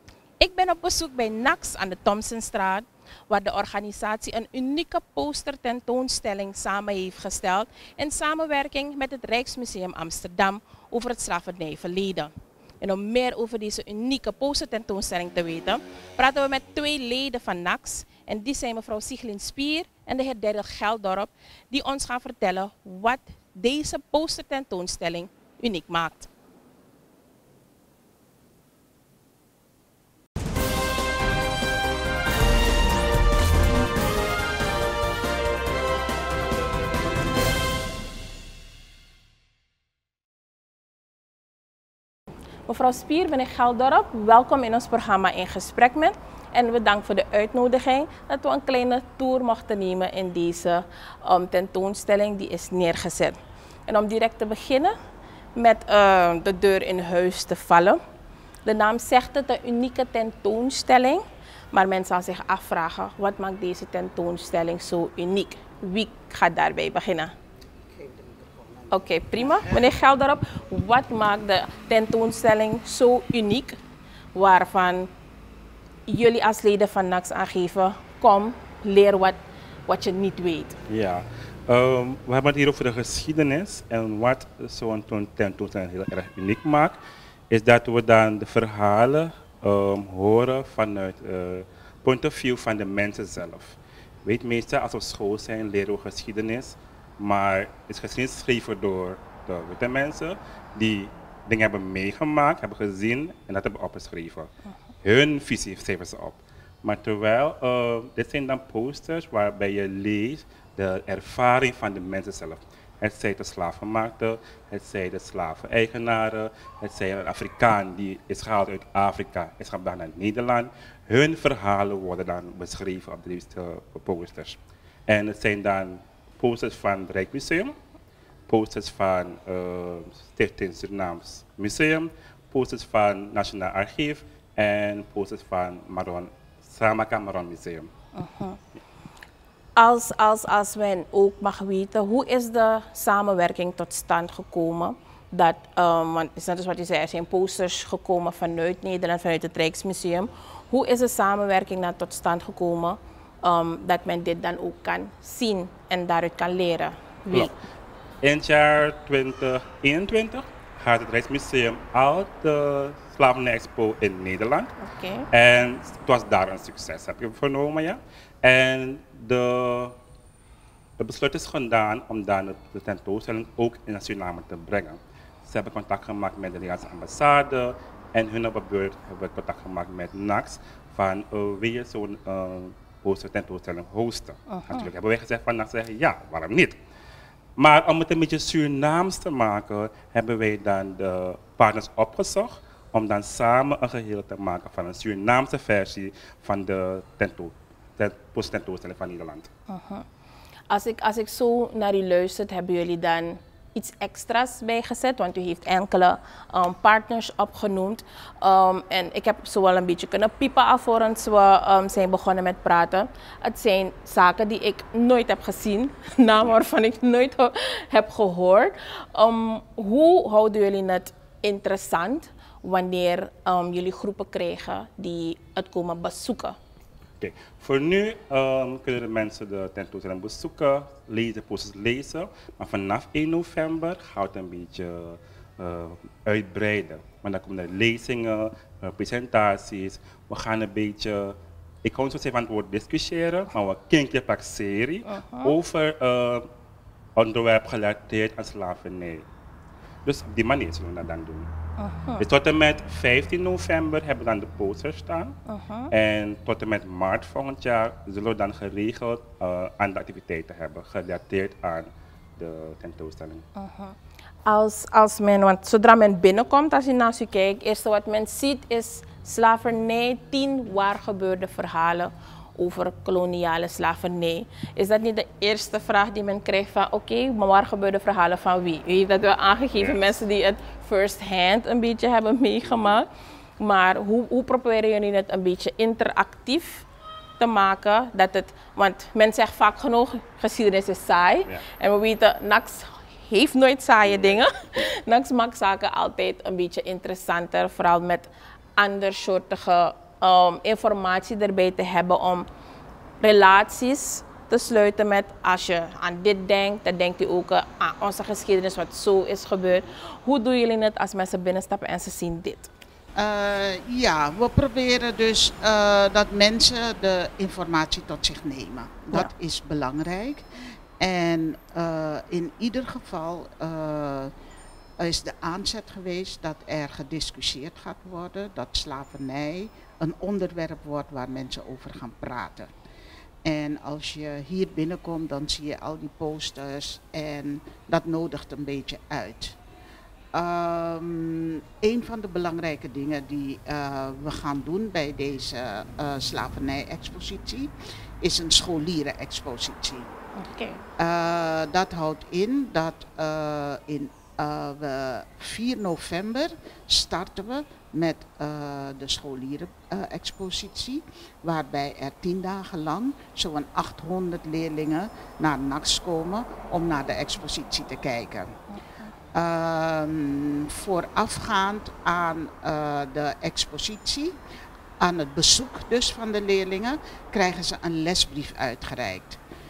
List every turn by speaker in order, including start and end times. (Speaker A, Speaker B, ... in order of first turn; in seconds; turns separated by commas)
Speaker A: 0.4-26.3, Speaker A: 42.7-55.0, Speaker A: 55.5-58.0, Speaker A: 58.6-67.3, Speaker B: 67.8-69.7, Speaker A: 68.9-73.8, Speaker A: 74.3-75.1, Speaker A: 76.1-80.8, Speaker C: 80.9-87.0, Speaker C: 87.5-104.5, Speaker C: 105.0-127.7, Speaker C: 128.5-137.9, Speaker A: 138.1-138.6, Speaker A: 139.8-157.5, Speaker C: 158.2-164.7, Speaker A: 164.8-165.3, Speaker C: 165.3-169.9, Speaker C: 171.0-186.8, Speaker A: 184.5-184.9, Speaker C: 187.6-199.5, Speaker A: 199.7-200.0, Speaker A: 200.7-226.6, Speaker C: 227.2-246.5, Speaker A: 245.1-245.5, Speaker C: 247.2-249.2, Speaker C: 250.0-251.5, Speaker A: 251.8-252.3, Speaker C: 252.2-255.3, Speaker A: 255.5-255.9, Speaker C: 255.9-263.4, Speaker A: 263.6-263.9, Speaker A: 264.4-283.1, Speaker C: 279.8-280.1, Speaker A: 283.6-286.8, Speaker A: 287.4-302.5, Speaker C: 294.0-294.8, Speaker A: 303.2-312.7, Speaker B: 313.1-320.4, Speaker B: 321.0-324.3, Speaker B: 325.0-332.7, Speaker B: 333.4-339.6, Speaker B: 340.3-350.1, Speaker A: 350.4-350.8, Speaker B: 351.0-368.6, Speaker A: 368.7-369.1, Speaker B: 369.3-374.4, Speaker B: 375.0-379.4